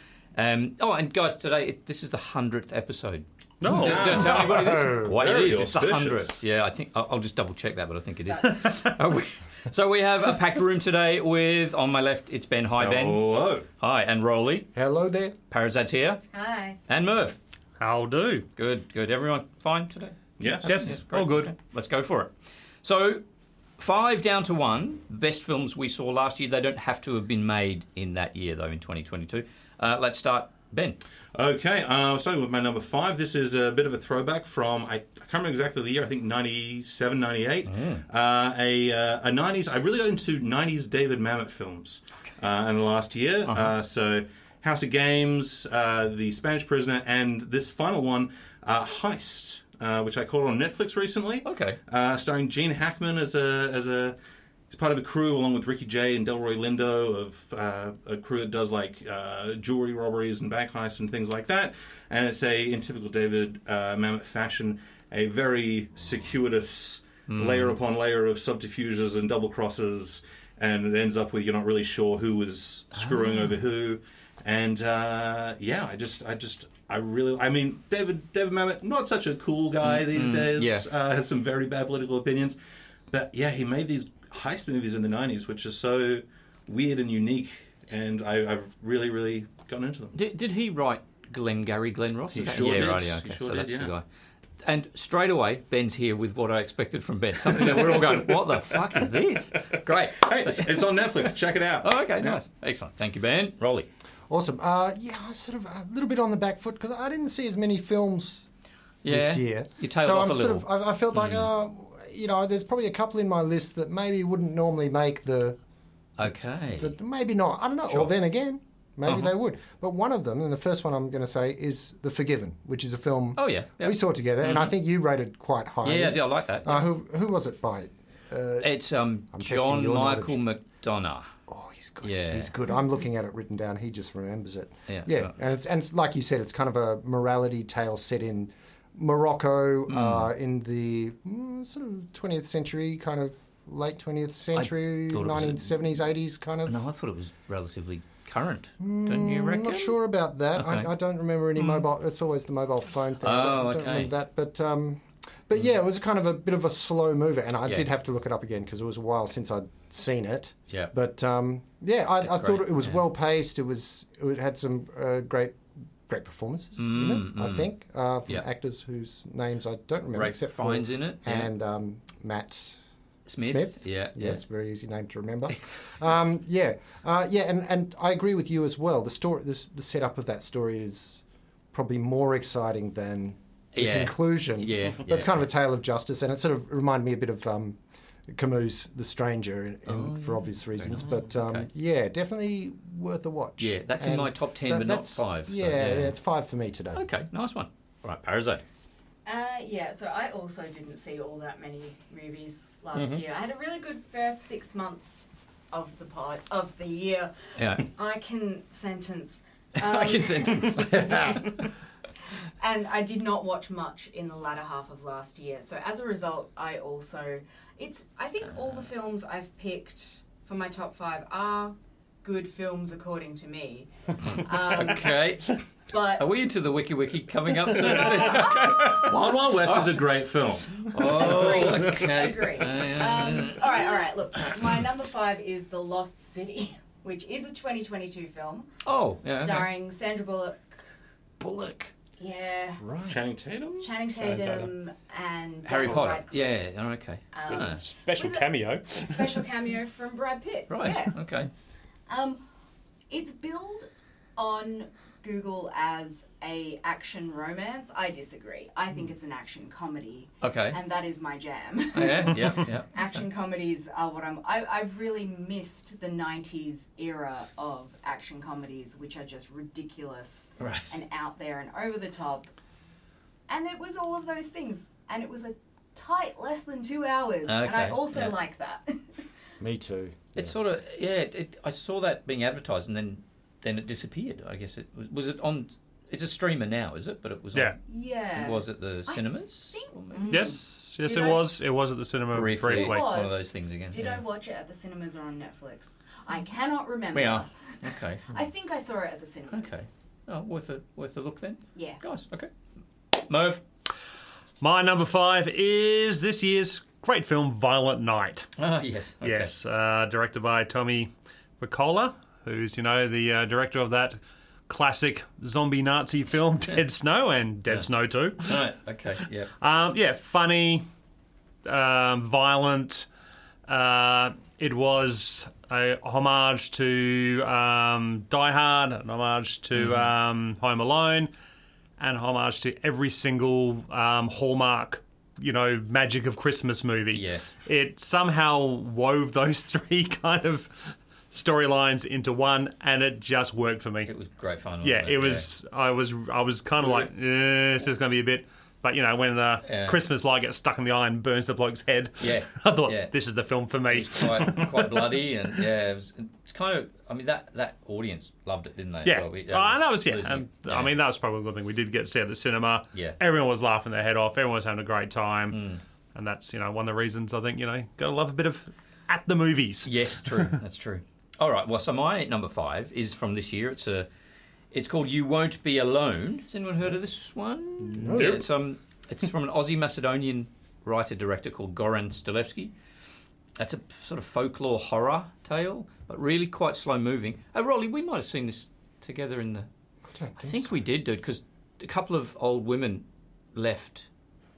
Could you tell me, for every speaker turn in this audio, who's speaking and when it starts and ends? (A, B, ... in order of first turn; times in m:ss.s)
0:00.4-0:14.7 A
0:03.6-0:04.4 B
0:03.7-0:06.4 C
0:04.6-0:05.1 D
0:08.3-0:08.6 E
0:08.6-0:08.9 B
0:12.8-0:13.7 C
0:14.7-0:15.4 D
0:15.5-0:16.2 A
0:16.3-0:16.8 E
0:16.9-0:17.4 A
0:17.8-0:18.5 B
0:18.6-0:22.3 A
0:20.4-0:20.9 C
0:20.6-0:21.5 B
0:22.8-0:23.2 A
0:23.8-0:31.0 A
0:31.3-0:54.2 C
0:37.7-0:38.0 A
0:43.5-0:43.7 A
0:51.4-0:51.8 A
0:54.7-1:22.6 C
1:07.3-1:07.8 A
1:12.9-1:13.6 A
1:19.8-1:20.9 A
1:23.1-1:30.2 C
1:30.1-1:34.0 A
1:32.3-1:33.9 C
1:34.6-1:43.9 A
1:37.4-1:42.4 C
1:44.3-1:48.5 D
1:49.0-1:51.5 A
1:49.1-1:55.6 D
1:56.2-1:56.9 A
1:56.8-2:08.7 D
1:59.1-1:59.3 A
2:03.4-2:04.7 A
2:05.8-2:06.8 A
2:08.6-2:11.3 A
2:09.3-2:10.4 D
2:11.5-2:26.8 D
2:12.0-2:12.5 A
2:14.9-2:15.3 A
2:19.9-2:20.3 A
2:24.6-2:25.8 A
2:26.7-2:30.0 A
2:28.8-2:52.8 D
2:30.6-2:30.9 A
2:31.6-2:31.9 A
2:33.2-2:34.1 A
2:42.2-2:43.0 A
2:46.8-2:47.7 A
2:50.1-2:51.5 A
2:53.3-2:54.4 A
2:53.4-3:17.0 D
3:03.7-3:05.4 A
3:09.9-3:11.7 A
3:11.0-3:11.2 C
3:13.6-3:16.2 A
3:16.9-3:18.6 A
3:19.2-3:31.4 E
3:27.6-3:27.9 A
3:29.8-3:31.6 A
3:30.9-3:31.4 D
3:32.6-3:45.2 E
3:44.6-3:45.6 A
3:45.9-3:46.2 E
3:46.2-3:50.1 A
3:47.7-3:49.2 E
3:48.9-3:52.1 C
3:50.7-3:54.5 A
3:51.0-3:58.7 E
3:58.8-3:59.7 A
3:59.3-4:00.8 E
4:01.4-4:01.9 D
4:02.2-4:02.8 E
4:02.8-4:03.2 D
4:03.1-4:03.9 C
4:03.8-4:06.5 E
4:04.1-4:04.7 B
4:05.7-4:07.8 A
4:07.3-4:11.2 E
4:07.5-4:09.4 B
4:10.7-4:11.5 A
4:12.1-4:12.4 E
4:13.1-4:32.5 E
4:20.4-4:20.8 A
4:21.9-4:23.1 A
4:30.6-4:31.0 A
4:33.5-4:39.2 E
4:37.5-4:38.4 A
4:39.6-4:40.6 D
4:40.3-4:47.8 A
4:47.9-4:51.5 E
4:48.4-4:50.5 A
4:50.3-4:53.1 B
4:52.3-4:54.2 A
4:52.7-4:59.8 E
4:57.1-4:58.3 A
4:59.5-5:02.5 A
5:01.8-5:02.0 E
5:03.1-5:03.6 A
5:04.6-5:08.5 B
5:08.6-5:09.5 A
5:09.2-5:18.6 B
5:18.4-5:19.5 A
5:19.6-5:20.8 B
5:21.6-5:23.1 B
5:23.7-5:31.3 B
5:29.7-5:30.2 A
5:32.0-5:44.1 B
5:37.1-5:37.5 A
5:44.1-5:45.5 A
5:44.8-5:55.1 B
5:49.7-5:50.0 A
5:52.2-5:53.1 A
5:53.9-6:00.9 A
5:59.0-6:10.6 B
6:02.9-6:03.2 A
6:05.5-6:05.8 A
6:09.9-6:14.1 A
6:14.7-6:22.7 A
6:17.8-6:18.4 D
6:18.1-6:18.4 B
6:23.6-6:29.7 A
6:30.1-6:30.7 D
6:30.4-6:34.1 A